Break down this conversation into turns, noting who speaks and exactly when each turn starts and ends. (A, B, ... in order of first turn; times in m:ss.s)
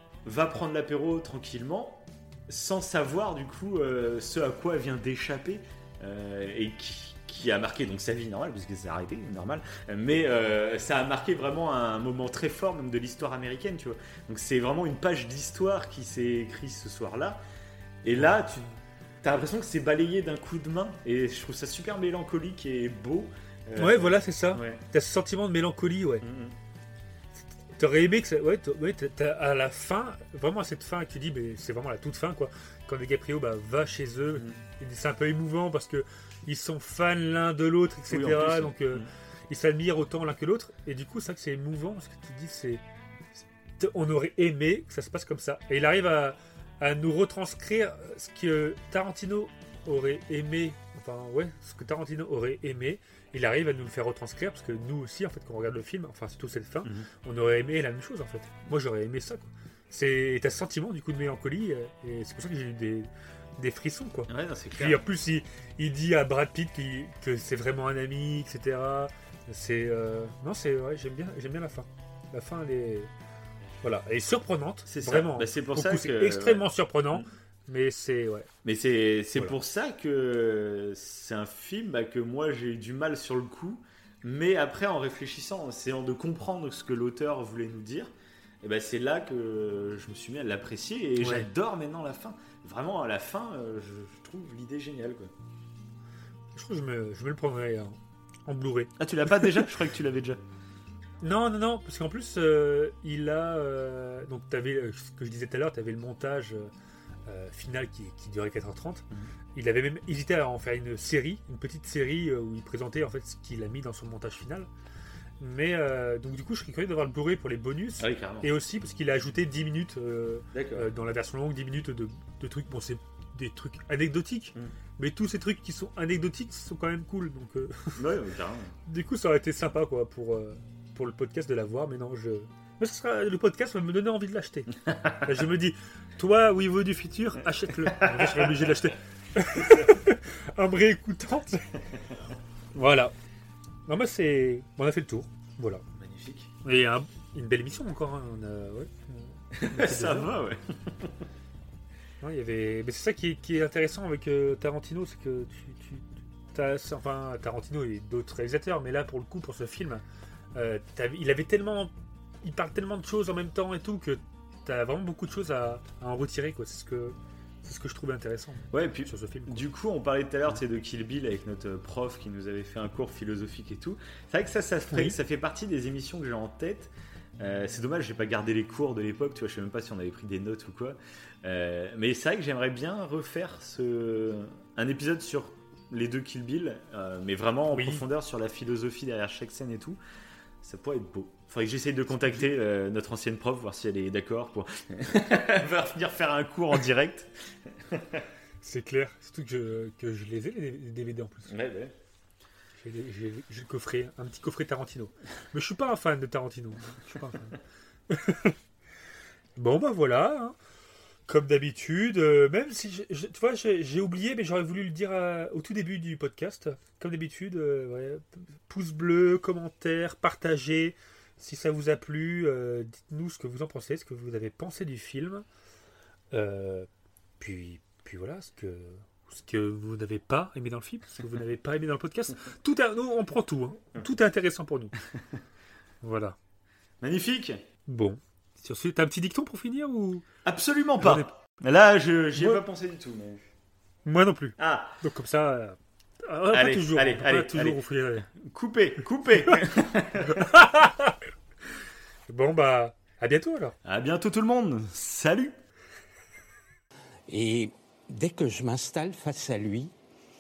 0:00.2-0:17.4 A
0:18.0-0:24.8 A
0:23.8-0:26.3 B
0:26.2-0:26.5 A
0:27.7-0:42.8 B
0:38.1-0:39.1 A
0:43.8-1:13.1 B
1:04.3-1:05.0 A
1:13.8-1:18.5 B
1:14.9-1:17.2 A
1:18.6-1:28.1 A
1:28.6-1:35.3 A
1:31.2-1:31.5 B
1:36.6-1:38.9 B
1:39.0-1:40.4 A
1:41.2-1:46.7 B
1:47.3-1:54.7 B
1:55.4-2:08.0 B
1:58.0-1:58.5 A
2:00.5-2:00.9 A
2:08.0-2:08.7 A
2:08.9-2:21.8 B
2:17.9-2:18.4 A
2:22.8-2:23.1 B
2:23.9-2:25.8 B
2:26.0-2:26.5 A
2:26.6-2:30.4 B
2:29.5-2:31.1 A
2:32.2-2:40.0 B
2:40.6-2:41.9 B
2:42.4-2:49.6 B
2:48.7-3:10.0 A
3:07.7-3:08.0 B
3:10.6-3:18.2 A
3:12.1-3:12.4 B
3:18.6-3:21.5 B
3:21.5-3:21.9 A
3:22.8-3:27.6 B
3:28.1-3:28.6 B
3:29.6-3:30.6 B
3:31.3-3:45.4 B
3:46.3-3:46.9 B
3:47.4-3:54.9 B
3:56.0-3:56.4 B
3:57.0-3:57.6 A
3:57.9-4:00.3 B
4:00.4-4:03.4 A
4:01.0-4:01.3 B
4:02.4-4:02.6 B
4:04.1-4:08.3 B
4:04.6-4:05.0 A
4:06.5-4:07.8 A
4:08.3-4:10.5 A
4:10.2-4:11.2 B
4:12.3-4:13.8 B
4:13.8-4:15.5 A
4:17.3-4:19.9 C